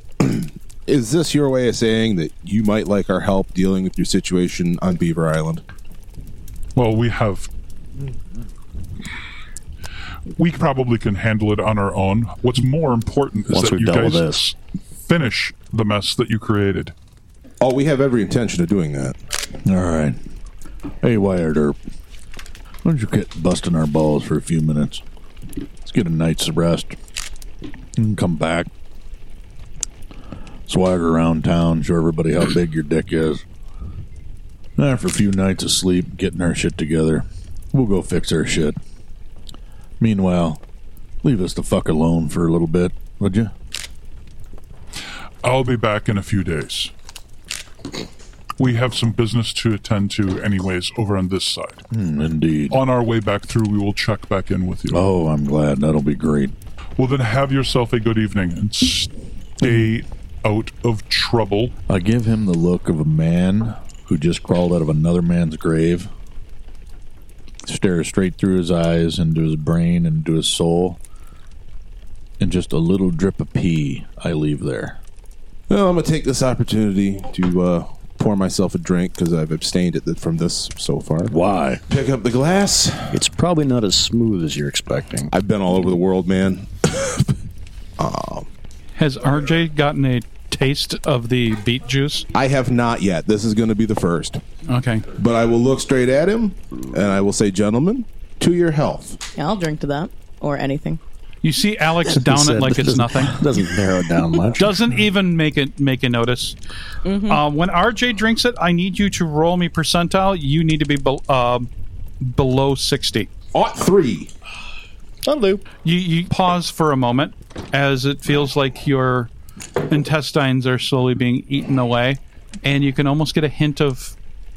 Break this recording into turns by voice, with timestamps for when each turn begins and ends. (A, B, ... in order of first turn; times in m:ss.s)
0:00.2-0:05.6 A
0:06.8-0:07.5 B
0:10.4-0:16.9 B
0:13.5-0:14.5 C
0:17.6-0:19.2 A
0:19.6-0:20.2 D
0:21.0-0:21.8 D
0:22.8-0:25.0 D
0:25.8-0:27.0 D
0:28.0-0:28.7 D
0:30.7-0:33.4 D
0:34.8-0:38.8 D
0:40.0-0:40.6 D
0:41.2-0:43.5 D
0:45.4-0:46.9 B
0:48.6-0:51.8 B
0:51.9-0:52.8 D
0:52.7-0:55.0 B
0:54.9-0:56.5 D
0:57.0-1:01.7 B
0:59.6-0:59.9 D
1:01.9-1:06.1 D
1:07.6-1:11.0 D
1:12.4-1:15.0 D
1:15.7-1:21.3 A
1:21.3-1:21.8 D
1:21.9-1:23.2 A
1:23.1-1:25.3 C
1:25.3-1:27.3 A
1:28.0-1:28.5 A
1:29.0-1:32.3 E
1:32.3-1:34.4 A
1:34.6-1:35.1 E
1:35.1-1:39.2 A
1:39.3-1:41.0 F
1:41.4-1:43.4 E
1:42.1-1:44.8 C
1:44.6-1:46.6 E
1:47.0-1:47.4 F
1:47.2-1:51.7 E
1:52.2-1:53.3 E
1:53.5-1:54.3 A
1:55.2-1:55.6 C
1:55.8-1:59.3 E
1:59.8-2:04.2 E